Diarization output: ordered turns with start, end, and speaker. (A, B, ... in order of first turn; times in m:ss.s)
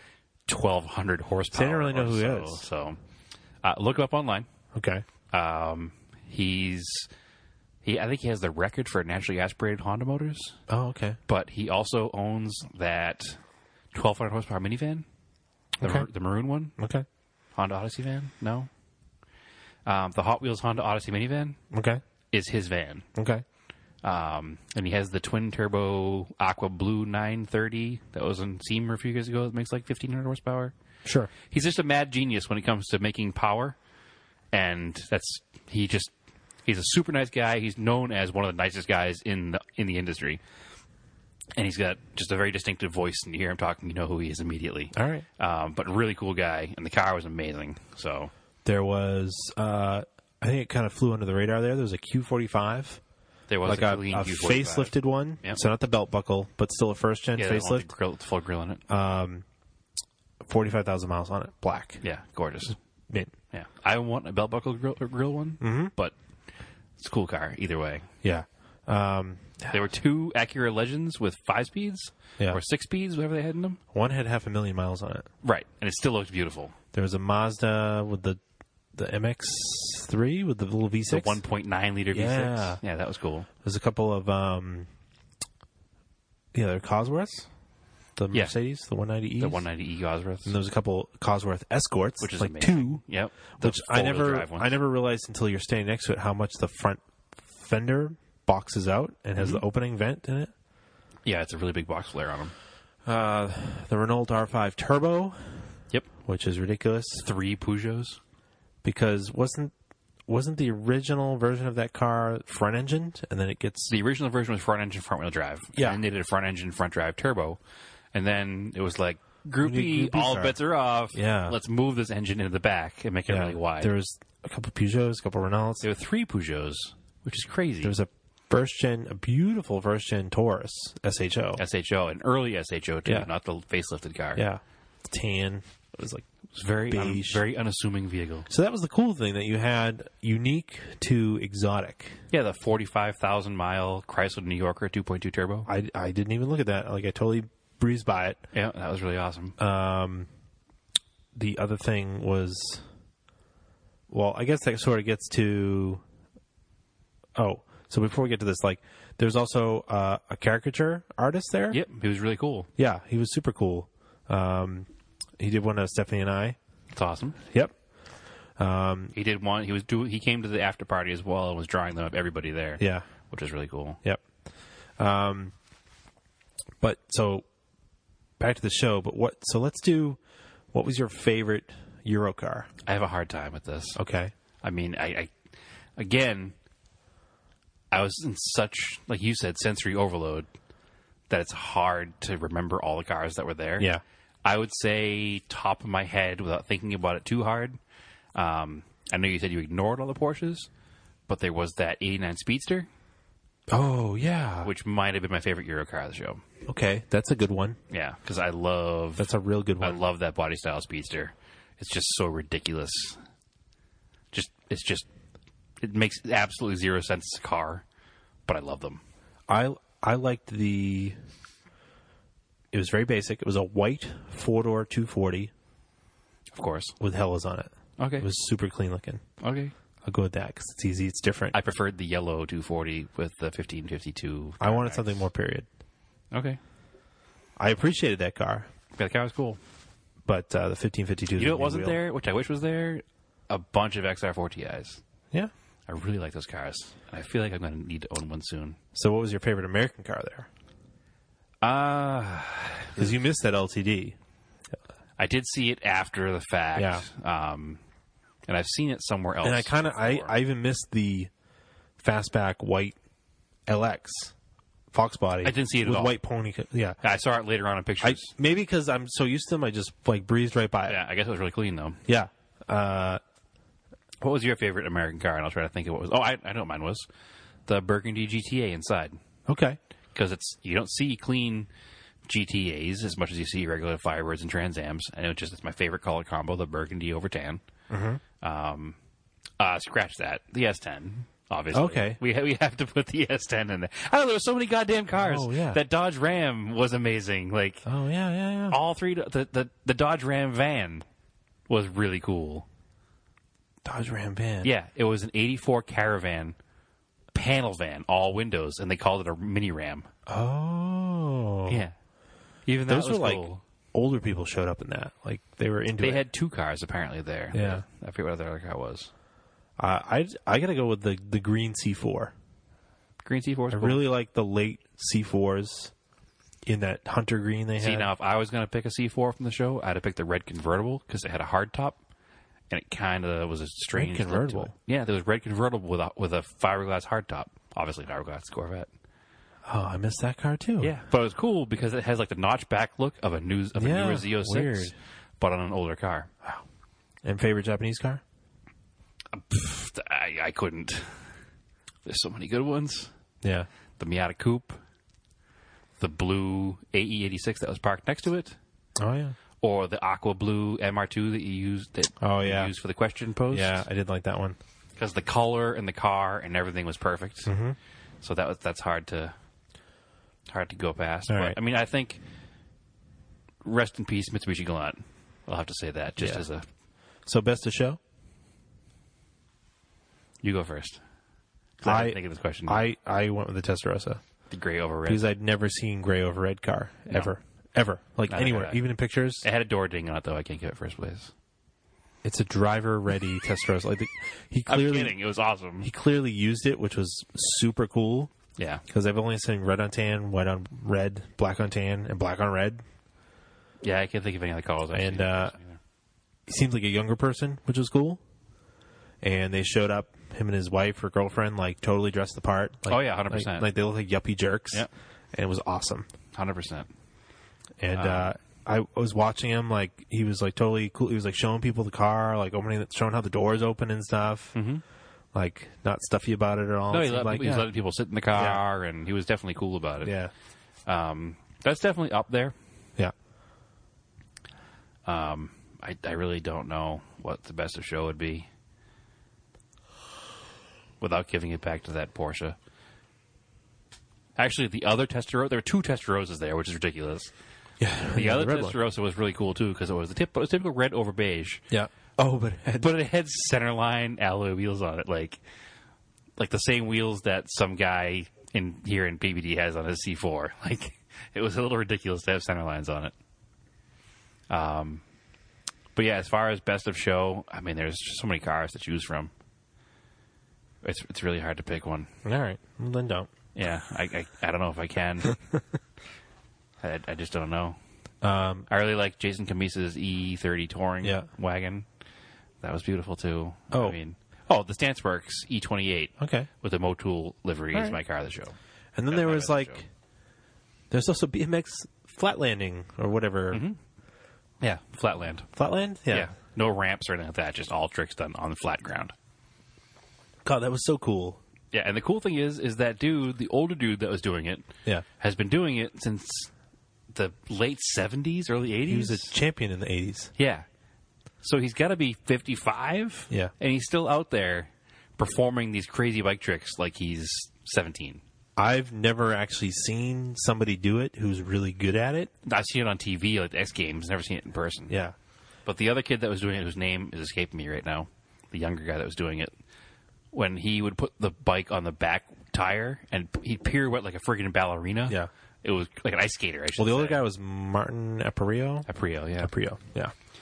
0:00.5-0:03.0 A
0:01.5-0:02.6 B
0:03.6-0:04.5 A
0:04.7-0:05.0 B
0:05.3-0:07.1 A
0:07.8-0:10.6 A
0:10.7-0:11.2 B
0:11.3-0:13.4 A
0:13.9-0:15.0 A
0:15.8-0:16.7 A
0:16.8-0:17.0 B
0:17.6-0:18.7 A
0:19.9-0:21.6 A
0:21.7-0:22.0 B
0:22.3-0:23.1 A
0:23.2-0:23.4 B
0:24.0-0:30.7 A
0:31.0-0:31.3 B
0:31.5-0:33.8 A
0:34.5-0:36.1 A
0:36.6-0:40.4 A
0:41.6-0:48.3 A
0:44.9-0:45.3 B
0:48.6-0:53.0 B
0:53.5-0:55.6 A
0:53.6-0:57.9 B
0:57.4-0:58.8 A
0:58.9-0:59.4 B
1:00.4-1:02.0 B
1:02.0-1:02.8 A
1:03.5-1:06.2 A
1:05.6-1:05.9 B
1:07.0-1:08.1 A
1:08.2-1:09.8 B
1:09.7-1:13.8 A
1:13.9-1:15.3 B
1:15.4-1:16.7 A
1:16.9-1:18.4 B
1:18.9-1:21.4 B
1:21.1-1:23.5 A
1:22.1-1:22.8 B
1:23.6-1:24.9 B
1:26.5-1:27.5 B
1:28.2-1:29.6 B
1:29.4-1:30.6 A
1:30.5-1:33.0 B
1:32.2-1:34.8 A
1:33.6-1:40.5 B
1:39.4-1:39.6 A
1:41.3-1:42.5 A
1:43.0-1:45.7 B
1:46.2-1:47.2 B
1:47.2-1:48.2 A
1:48.8-1:49.7 B
1:50.3-1:53.9 B
1:53.9-1:57.6 A
1:58.1-2:03.9 A
1:59.6-2:00.6 B
2:01.1-2:01.6 B
2:03.3-2:05.8 B
2:05.8-2:07.9 A
2:07.8-2:11.6 B
2:11.6-2:14.4 A
2:14.4-2:16.3 B
2:16.5-2:18.5 A
2:16.9-2:17.4 B
2:18.5-2:22.2 B
2:22.3-2:25.7 A
2:25.7-2:28.4 B
2:28.5-2:29.6 A
2:29.6-2:30.3 B
2:31.4-2:32.8 B
2:34.1-2:36.0 B
2:37.4-2:41.8 B
2:41.7-2:42.7 A
2:42.8-2:44.9 B
2:45.4-2:46.6 B
2:46.9-2:47.4 A
2:48.6-2:49.1 B
2:49.2-2:54.0 A
2:52.8-2:53.1 B
2:55.0-2:55.5 B
2:56.8-2:57.4 B
2:58.4-3:00.2 B
3:00.7-3:02.7 B
3:02.9-3:04.0 A
3:04.0-3:04.3 B
3:04.6-3:05.3 A
3:06.0-3:06.6 A
3:07.9-3:10.5 A
3:11.3-3:13.9 A
3:14.4-3:17.8 A
3:18.4-3:20.7 A
3:21.3-3:22.9 A
3:23.7-3:24.7 B
3:24.6-3:26.4 A
3:26.7-3:27.8 B
3:27.9-3:29.3 A
3:29.2-3:30.0 B
3:29.8-3:33.2 A
3:34.3-3:35.1 A
3:35.8-3:37.8 A
3:38.5-3:39.0 A
3:39.5-3:41.2 B
3:42.7-3:45.5 B
3:46.6-3:47.0 A
3:47.0-3:49.2 B
3:48.0-3:48.3 A
3:49.4-3:49.7 A
3:50.0-3:51.6 B
3:51.5-3:55.2 A
3:54.6-3:55.7 B
3:56.3-3:56.6 A
3:57.6-3:58.7 B
3:59.0-3:59.6 A
4:00.3-4:02.0 B
4:01.4-4:05.0 A
4:05.9-4:08.8 A
4:09.0-4:10.5 B
4:11.6-4:13.1 A
4:13.0-4:14.2 B
4:15.2-4:17.8 A
4:16.8-4:17.0 B
4:18.5-4:20.3 A
4:19.4-4:21.3 B
4:22.0-4:23.0 B
4:23.7-4:24.3 B
4:24.9-4:27.0 B
4:25.4-4:26.2 A
4:27.0-4:28.3 A
4:28.0-4:31.0 B
4:30.9-4:32.0 A
4:32.1-4:33.2 B
4:34.2-4:37.1 A
4:37.7-4:39.2 A
4:39.5-4:39.8 B
4:40.2-4:41.7 A
4:42.3-4:47.6 A
4:47.9-4:48.2 B
4:48.4-4:49.0 A
4:49.6-4:57.8 A
4:51.7-4:52.2 B
4:55.1-4:55.8 B
4:57.9-4:58.8 B
4:58.7-5:01.0 A
5:01.7-5:02.7 A
5:03.8-5:04.7 B
5:04.6-5:06.6 A
5:07.3-5:10.1 A
5:10.3-5:11.8 B
5:11.7-5:12.0 A
5:12.7-5:13.6 A
5:12.9-5:16.2 B
5:16.0-5:19.1 A
5:17.5-5:17.8 B
5:19.8-5:22.3 B
5:23.2-5:24.0 A
5:23.7-5:25.9 B
5:26.7-5:28.1 B
5:27.8-5:32.0 A
5:32.7-5:38.9 A
5:33.9-5:34.7 B
5:39.7-5:40.9 B
5:40.8-5:46.3 A
5:43.8-5:45.0 B
5:47.2-5:48.2 B
5:49.3-5:51.2 A
5:52.1-5:53.1 A
5:53.4-5:53.7 B
5:54.0-5:54.8 A
5:56.0-5:58.6 A
5:59.0-5:59.4 B
5:59.6-6:03.8 A
6:02.2-6:02.7 B
6:03.5-6:04.6 B
6:05.0-6:07.5 A
6:07.5-6:07.8 B
6:08.2-6:09.4 A
6:10.5-6:12.2 A
6:11.3-6:11.6 B
6:13.6-6:16.7 A
6:16.2-6:16.4 B
6:17.3-6:18.0 B
6:20.4-6:21.0 A
6:21.8-6:22.8 A
6:21.8-6:24.2 B
6:24.5-6:25.2 A
6:25.1-6:29.4 B
6:28.3-6:28.8 A
6:29.4-6:31.3 A
6:32.2-6:35.2 B
6:34.7-6:35.9 A
6:35.8-6:38.3 B
6:38.6-6:38.8 A
6:38.9-6:42.8 B
6:43.8-6:45.8 A
6:44.9-6:45.5 B
6:46.5-6:48.2 B
6:49.2-6:56.1 B
6:52.9-6:53.7 A
6:56.3-6:56.9 A
6:57.8-7:04.6 B
6:57.9-6:58.3 A
7:04.6-7:04.8 A
7:05.3-7:07.7 B
7:06.9-7:10.1 A
7:08.3-7:08.6 B
7:10.0-7:10.3 B
7:10.9-7:12.6 A
7:15.1-7:18.5 A
7:21.0-7:22.6 A
7:24.4-7:27.3 A
7:27.8-7:28.8 B
7:28.1-7:31.6 A
7:31.7-7:32.9 B
7:32.8-7:35.4 A
7:36.4-7:43.1 A
7:44.5-7:45.0 A
7:46.0-7:49.3 A
7:50.8-7:52.1 A
7:52.2-7:53.3 B
7:53.6-7:55.4 A
7:56.8-7:57.8 A
7:58.2-7:58.7 B
7:58.7-8:01.9 A
8:02.6-8:08.6 A
8:06.2-8:06.5 B
8:09.0-8:09.9 B
8:09.1-8:09.8 A
8:10.9-8:13.6 B
8:13.5-8:13.8 A
8:14.6-8:15.5 A
8:15.5-8:16.3 B
8:16.1-8:19.1 A
8:20.4-8:21.4 B
8:21.7-8:24.7 A
8:25.2-8:26.5 A
8:27.1-8:29.4 A
8:28.9-8:30.3 B
8:30.4-8:30.6 A
8:31.4-8:38.2 A
8:38.6-8:42.3 B
8:42.4-8:44.9 A
8:44.9-8:45.2 B
8:45.7-8:49.5 A
8:50.3-8:57.2 A
8:56.8-8:58.9 B
8:58.9-8:59.5 A
8:59.4-9:00.1 B